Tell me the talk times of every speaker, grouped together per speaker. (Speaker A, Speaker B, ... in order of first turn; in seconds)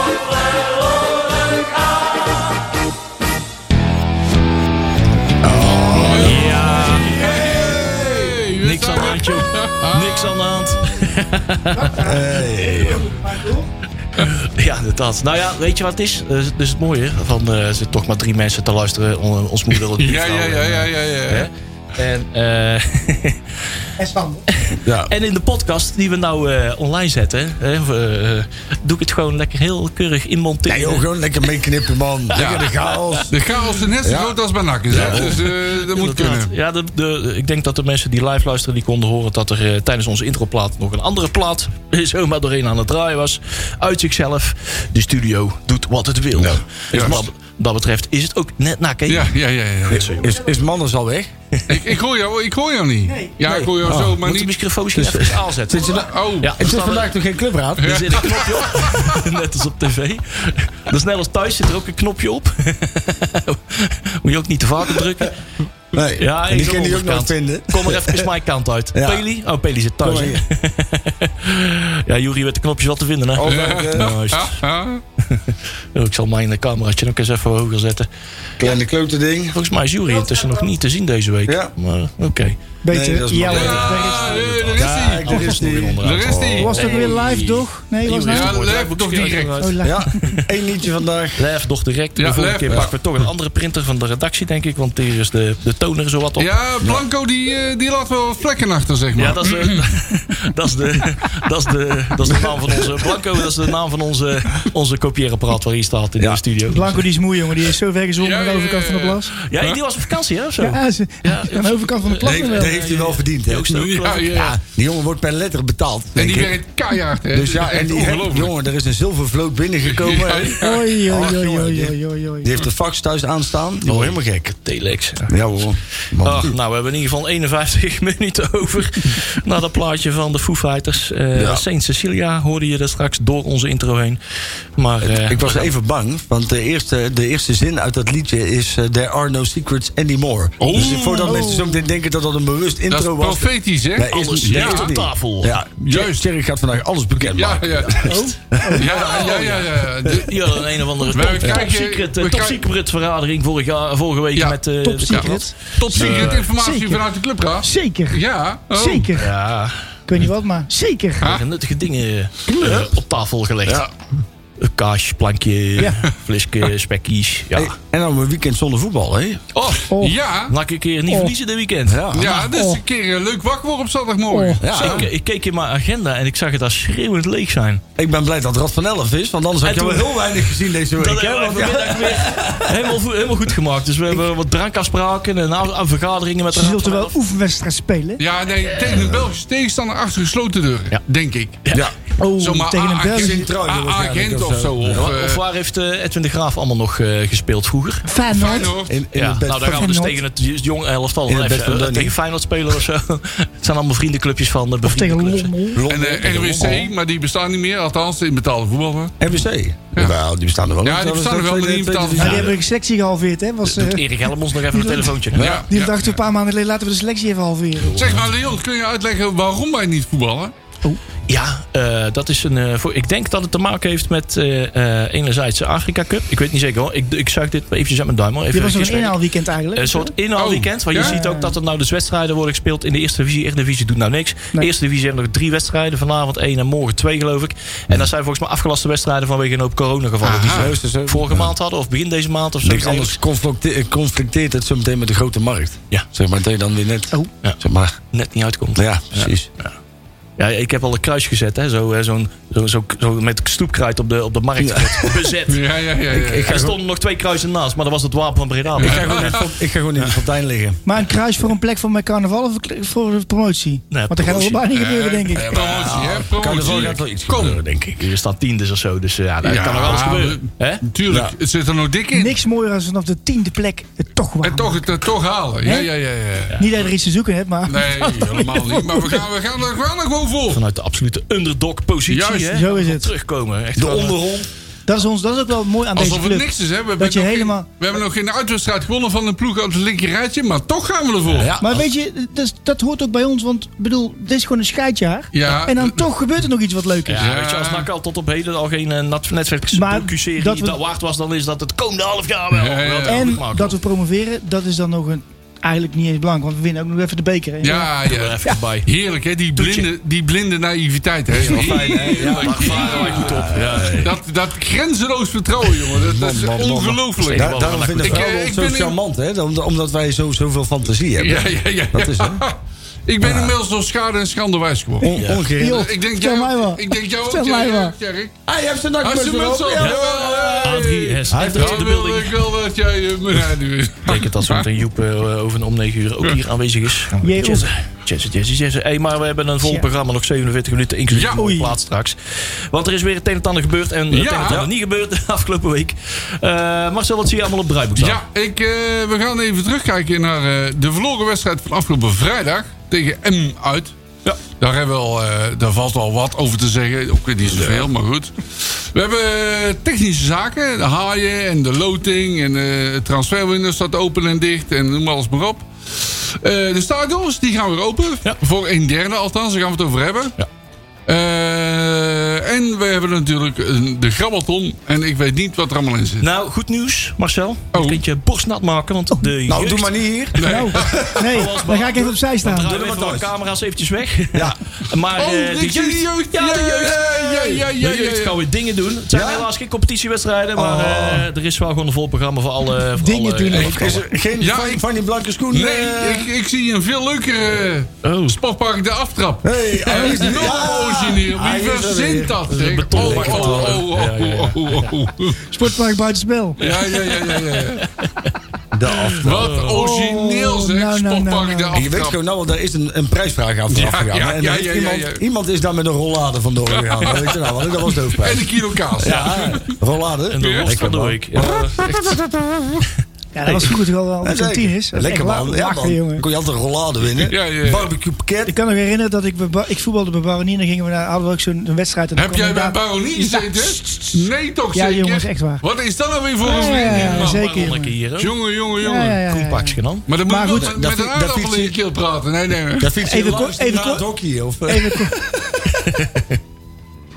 Speaker A: 5.4-8.0, 12.0-13.1, 24.8-25.1, 30.7-33.4, 34.0-34.4, 34.9-35.5, 46.4-47.3, 49.9-51.3, 53.5-54.2, 54.9-58.2, 65.9-68.3, 68.9-69.2, 70.0-70.4, 73.3-74.1, 78.6-79.5, 81.5-81.7, 82.9-87.1, 89.8-91.4, 102.3-102.8, 112.2-116.5, 117.3-124.6, 125.3-126.5, 131.3-131.6, 135.0-149.3, 151.4-151.7, 155.9-156.3, 162.5-162.9, 163.6-163.9, 167.5-169.4, 171.9-172.4, 174.6-175.1, 177.9-182.9, 188.8-189.3, 193.1-195.1, 198.6-200.0, 201.2-202.1, 205.7-206.9, 209.2-212.6, 215.3-215.6, 240.5-241.5, 242.6-248.0, 248.8-249.5, 254.6-255.1, 256.1-256.7, 258.8-260.8, 265.3-268.1, 271.1-271.3, 283.8-284.5, 291.3-291.8, 311.3-314.1, 315.9-322.4, 323.2-323.6, 325.0-325.9, 328.5-331.9, 357.5-357.9, 379.5-381.3, 382.6-383.3, 389.1-389.5, 390.6-391.3, 393.5-396.3, 399.4-403.8, 408.7-409.6, 411.7-422.2, 424.2-428.6, 440.5-441.8, 442.8-446.1
Speaker B: 5.9-10.4, 19.9-21.5, 32.3-36.5, 46.9-47.2, 49.1-50.1, 51.7-54.6, 55.8-56.5, 57.8-59.2, 73.4-75.0, 83.4-85.4, 86.0-87.1, 88.3-89.7, 92.2-93.0, 96.4-99.9, 108.2-109.8, 113.7-114.5, 116.2-118.5, 119.8-121.0, 140.6-141.2, 142.9-144.9, 145.8-146.2, 147.2-152.6, 154.3-159.1, 170.0-170.5, 172.1-175.0, 188.2-191.6, 192.3-195.4, 198.3-198.9, 205.8-209.2, 210.8-212.5, 215.3-216.2, 217.9-220.5, 230.3-231.2, 240.2-240.8, 255.5-256.7, 258.8-259.5, 264.7-267.6, 269.4-272.4, 274.4-276.6, 277.7-280.6, 282.1-282.6, 285.9-291.5, 295.3-296.0, 297.2-297.9, 302.5-303.4, 307.6-319.0, 321.2-322.6, 323.1-328.4, 329.0-334.7, 341.1-341.4, 344.1-344.6, 348.0-354.0, 354.6-370.4, 371.1-376.3, 377.7-378.0, 380.4-381.5, 385.1-388.4, 394.4-394.8, 395.5-405.5, 406.6-407.9, 409.2-412.2, 413.7-415.2, 416.7-417.5, 418.2-419.8, 420.4-420.7, 421.4-422.2, 427.1-427.9, 432.1-437.5, 438.2-439.2, 440.1-442.9
Speaker C: 6.2-7.5, 8.6-12.0, 14.2-23.5, 24.5-31.1, 34.9-49.4, 49.9-50.3, 53.5-57.1, 57.8-65.3, 66.2-74.6, 75.3-78.1, 79.5-82.6, 84.8-90.4, 91.4-96.5, 99.2-107.0, 109.4-114.6, 123.8-125.3, 126.0-134.2, 134.8-135.7, 140.7-141.4, 144.1-145.5, 148.9-156.5, 159.1-159.8, 161.2-163.9, 164.6-167.8, 169.5-169.9, 170.5-172.4, 174.7-177.8, 179.6-187.2, 191.6-191.9, 194.8-198.1, 199.1-206.8, 212.2-212.5, 213.6-215.6, 217.8-218.2, 221.3-229.2, 229.8-243.2, 248.1-249.7, 250.4-255.6, 256.4-259.4, 263.9-264.6, 265.5-266.9, 268.0-270.8, 280.5-284.3, 297.1-303.8, 308.0-308.9, 309.6-309.9, 311.3-314.1, 317.2-318.3, 325.1-325.4, 329.8-332.4, 334.1-348.2, 376.2-379.9, 381.3-394.1, 398.0-398.4, 402.5-404.9, 406.6-408.3, 409.2-409.8, 419.1-419.6, 420.3-421.8, 436.6-438.4, 439.2-440.1, 445.8-446.3
Speaker D: 11.7-13.7, 24.0-24.4, 82.8-84.4, 86.6-88.5, 89.6-90.3, 106.7-109.3, 110.6-112.9, 120.6-122.5, 141.2-141.9, 148.0-148.9, 154.8-155.5, 156.5-157.0, 157.6-158.2, 158.7-159.3, 160.1-161.3, 169.9-170.2, 172.4-172.8, 174.3-174.6, 186.5-188.2, 192.2-193.5, 198.1-198.8, 199.6-200.2, 204.8-205.8, 212.2-214.0, 214.7-218.1, 228.5-230.1, 230.9-231.5, 260.9-265.5, 272.1-274.8, 276.6-279.2, 282.6-283.1, 284.9-287.7, 291.6-297.3, 299.7-300.8, 303.1-307.9, 325.6-327.9, 337.2-337.7, 341.4-341.8, 380.4-382.9, 392.9-394.0, 405.5-406.6, 409.7-411.9, 423.3-426.2, 428.5-434.2, 434.7-435.6, 436.4-437.9, 438.8-440.7, 443.0-444.1, 444.7-445.1